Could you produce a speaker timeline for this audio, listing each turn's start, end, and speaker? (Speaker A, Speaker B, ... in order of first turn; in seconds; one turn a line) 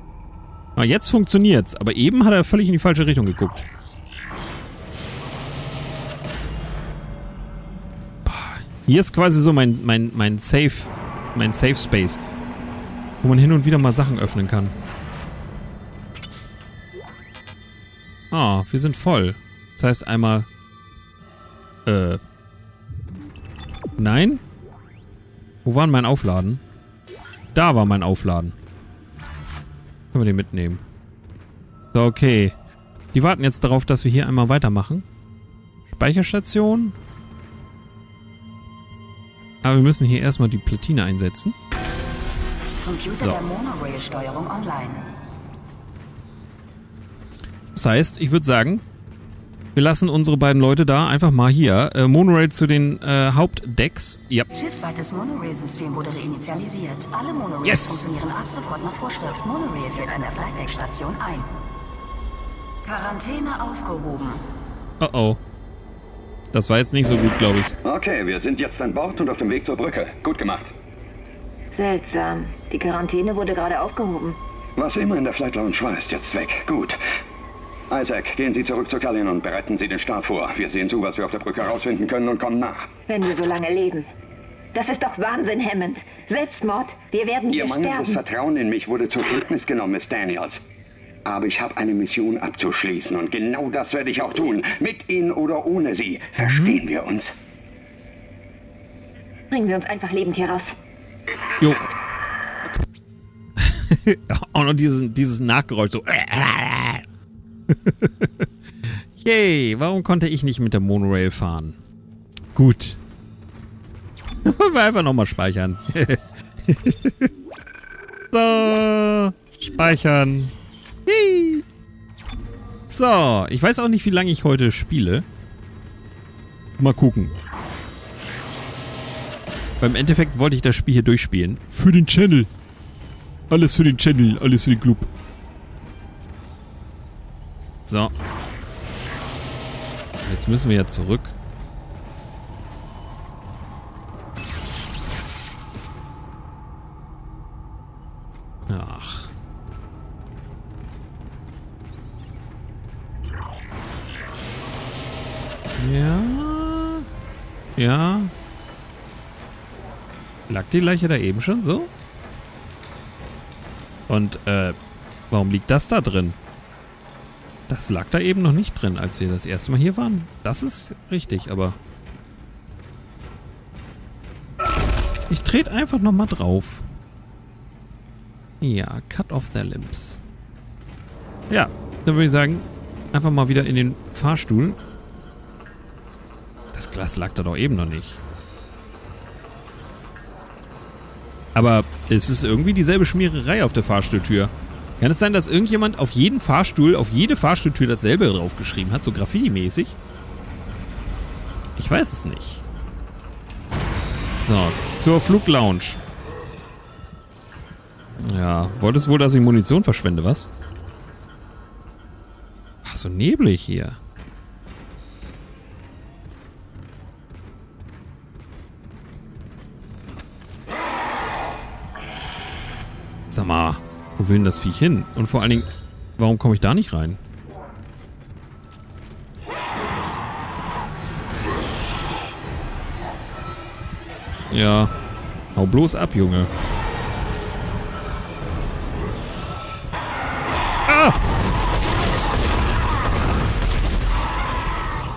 Speaker A: 0.8-3.6
Speaker A: 8.2-12.2
Speaker A: 13.2-14.7
Speaker A: 18.3-20.5
Speaker A: 21.9-22.2
Speaker A: 23.9-24.4
Speaker A: 25.6-26.6
Speaker A: 27.5-28.6
Speaker A: 30.1-30.8
Speaker A: 31.9-32.5
Speaker A: 33.1-35.0
Speaker A: 35.9-37.0
Speaker A: 39.6-41.5
Speaker B: 42.8-45.0
Speaker A: 43.2-43.5
Speaker A: 47.7-48.8
Speaker A: 49.7-54.5
Speaker B: 54.5-61.5
Speaker A: 57.6-58.0
Speaker B: 62.8-64.4
Speaker A: 65.0-65.4
Speaker A: 66.5-67.7
Speaker C: 67.8-70.7
Speaker D: 71.7-74.4
Speaker C: 74.8-77.0
Speaker C: 77.9-82.9
Speaker D: 83.1-84.1
Speaker D: 84.7-88.2
Speaker C: 87.5-90.6
Speaker C: 91.2-97.3
Speaker A: 96.4-96.8
Speaker D: 99.5-100.7
Speaker A: 103.6-107.0
Speaker A: 107.7-108.5
Speaker A: 109.2-111.8
Speaker A: 112.5-113.0
Speaker A: 114.4-117.3
Speaker A: 118.3-120.5
Speaker A: 121.0-121.6
Speaker A: 122.9-125.2
Speaker A: 126.8-127.3
Speaker A: 129.8-132.5
Speaker A: 133.5-135.1
Speaker A: 137.8-138.1
Speaker A: 140.2-141.3
Speaker A: 148.7-149.3
Speaker A: 155.8-157.1
Speaker A: 157.8-158.3
Speaker A: 160.5-161.9
Speaker A: 164.1-164.8
Speaker A: 165.3-166.4
Speaker A: 167.7-171.8
Speaker A: 175.3-176.9
Speaker A: 178.6-180.2
Speaker A: 181.5-184.8
Speaker A: 186.7-188.2
Speaker A: 191.5-200.0
Speaker A: 201.8-202.6
Speaker A: 204.4-206.0
Speaker A: 208.2-210.5
Speaker A: 212.8-214.0
Speaker A: 223.3-227.2
Speaker A: 234.5-234.9
Speaker A: 235.5-236.5
Speaker A: 240.8-241.2